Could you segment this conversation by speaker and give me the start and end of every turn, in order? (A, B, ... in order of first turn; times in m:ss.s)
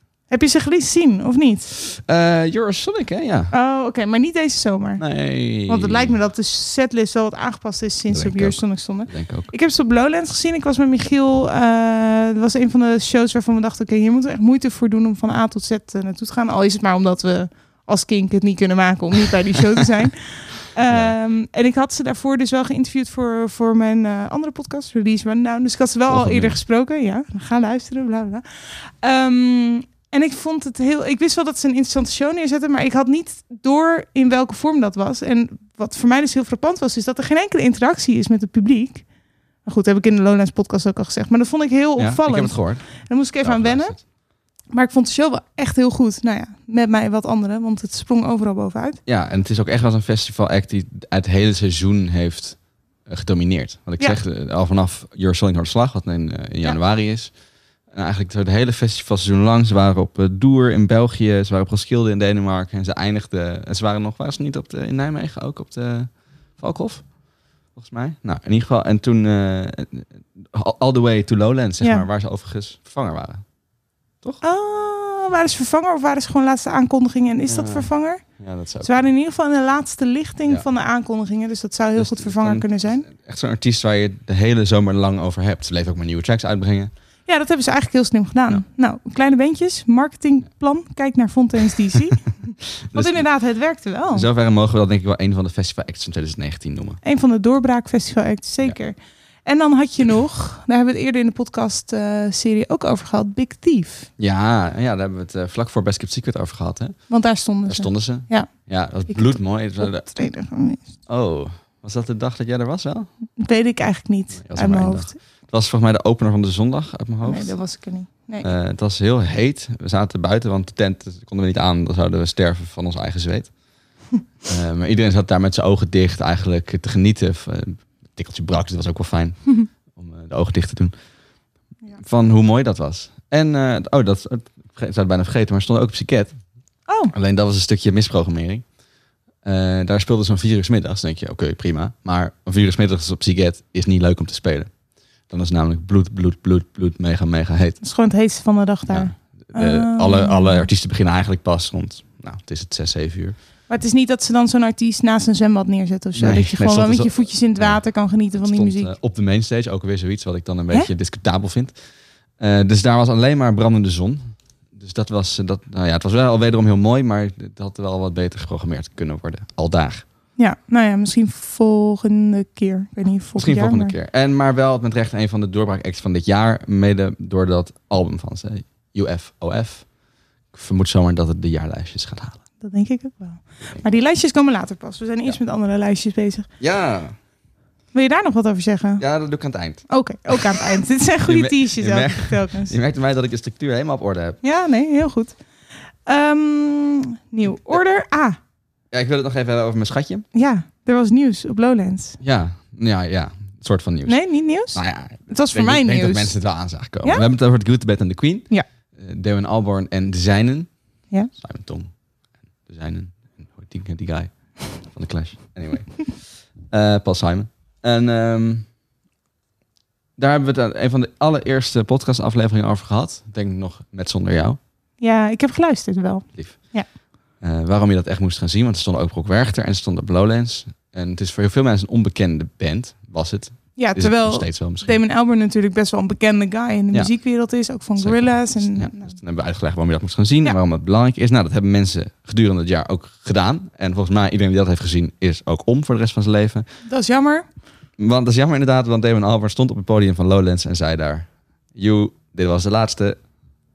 0:00.3-0:01.7 A
0:01.9-0:03.5 B
0:03.5-0:05.1 A
0:05.0-0:06.2 B
0:05.7-0:28.4 A
0:08.1-0:09.5 B
0:20.9-0:21.2 B
0:26.1-0:26.6 B
0:29.0-0:39.0 A
0:39.6-0:44.0 A
0:42.0-0:44.0 B
0:44.7-0:49.0 A
0:49.1-0:57.3 B
0:57.9-1:07.1 B
1:07.8-1:13.4 B
1:14.4-1:18.2 A
1:17.5-1:19.1 B
1:18.8-1:23.0 A
1:22.0-1:26.9 B
1:27.3-1:34.3 A
1:32.9-1:33.3 B
1:34.1-1:37.0 B
1:37.0-1:44.1 A
1:44.2-1:50.2 B
1:47.1-1:50.8 A
1:51.1-1:53.1 B
1:53.4-1:55.1 A
1:54.4-1:57.6 B
1:57.2-1:58.5 A
1:58.4-2:03.5 B
2:04.5-2:10.9 B
2:12.0-2:16.4 B
2:17.1-2:18.6 B
2:19.4-2:24.7 B
2:25.3-2:27.8 B
2:27.8-2:30.7 A
2:28.9-2:33.4 B
2:33.7-2:38.9 A
2:36.2-2:41.8 B
2:42.4-2:50.0 B
2:50.4-2:53.9 A
2:53.4-2:59.9 B
3:00.5-3:02.4 B
3:02.6-3:06.5 A
3:06.6-3:07.1 B
3:07.9-3:09.0 A
3:09.0-3:10.4 B
3:09.9-3:12.8 A
3:11.3-3:14.4 B
3:14.4-3:15.4 A
3:16.1-3:18.4 A
3:18.9-3:20.3 B
3:20.3-3:22.2 A
3:22.2-3:31.9 B
3:24.1-3:26.4 A
3:32.6-3:38.7 B
3:40.2-3:44.6 B
3:45.0-3:46.9 A
3:46.4-3:55.0 B
3:53.8-3:59.2 A
3:56.9-4:06.7 B
4:06.9-4:07.5 A
4:08.0-4:13.2 B